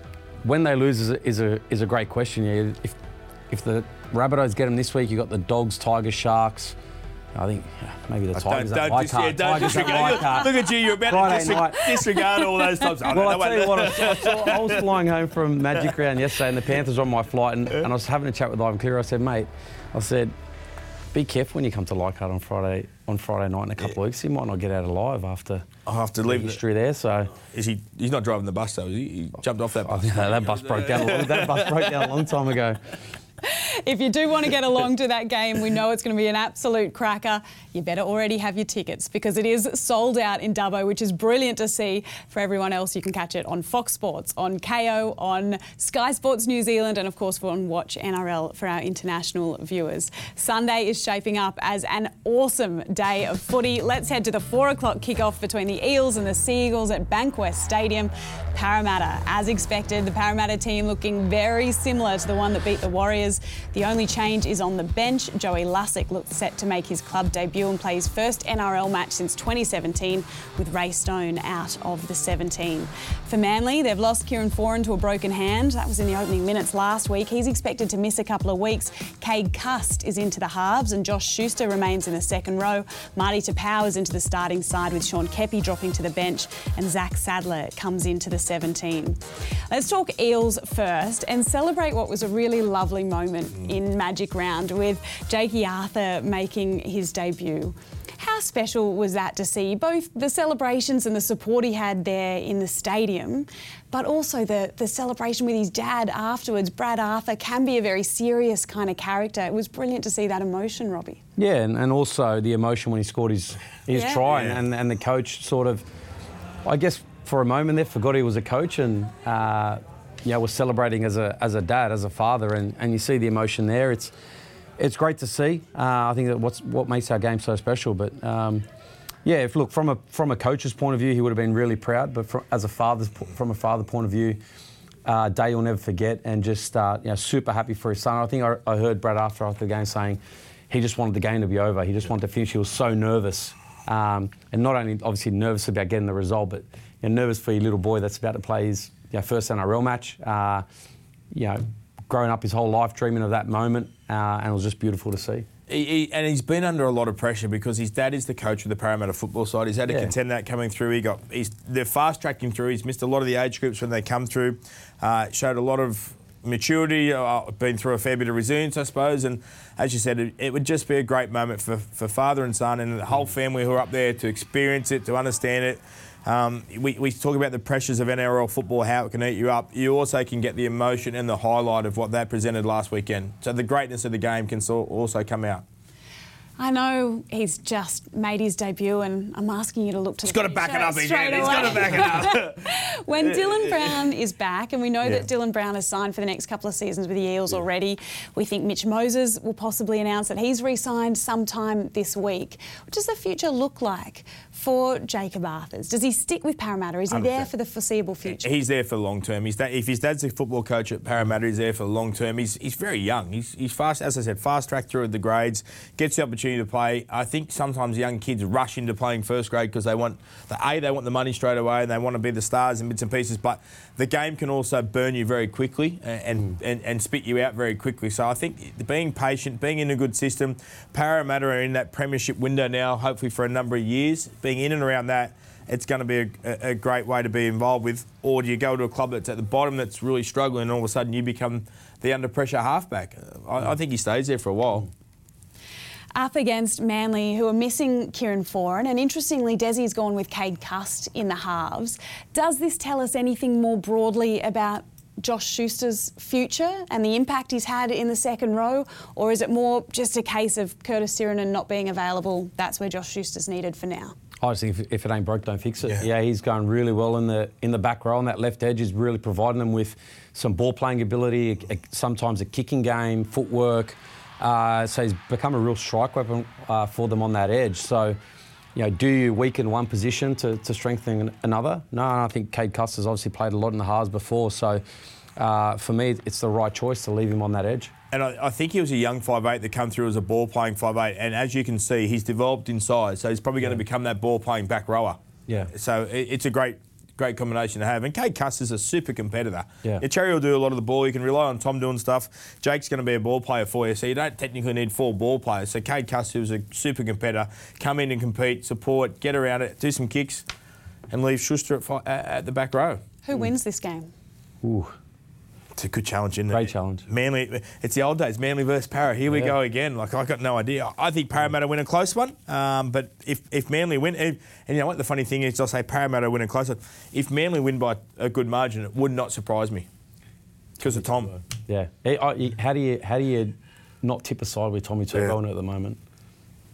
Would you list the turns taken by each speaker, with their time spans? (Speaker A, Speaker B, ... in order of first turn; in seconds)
Speaker A: 0.4-3.0, 3.5-6.8, 7.3-12.1, 13.1-20.3, 21.1-25.7, 26.2-27.3, 29.9-32.8, 111.4-115.8, 116.6-124.1, 124.8-128.7, 129.2-134.4, 135.1-150.7, 151.3-155.5, 159.9-160.1, 264.4-278.2, 278.8-284.8, 285.4-287.9, 314.6-314.9, 316.5-317.1, 319.3-319.6, 331.5-336.0
Speaker B: 8.3-14.9, 25.9-26.6, 27.4-32.1, 114.3-114.6, 155.7-185.6, 190.2-192.7, 207.1-207.5, 208.3-244.9, 288.1-295.2, 295.7-310.4, 311.1-313.0, 315.8-329.9, 330.8-331.4
Speaker C: 33.4-111.2, 113.9-114.2, 186.6-208.5, 246.2-264.2, 313.3-314.1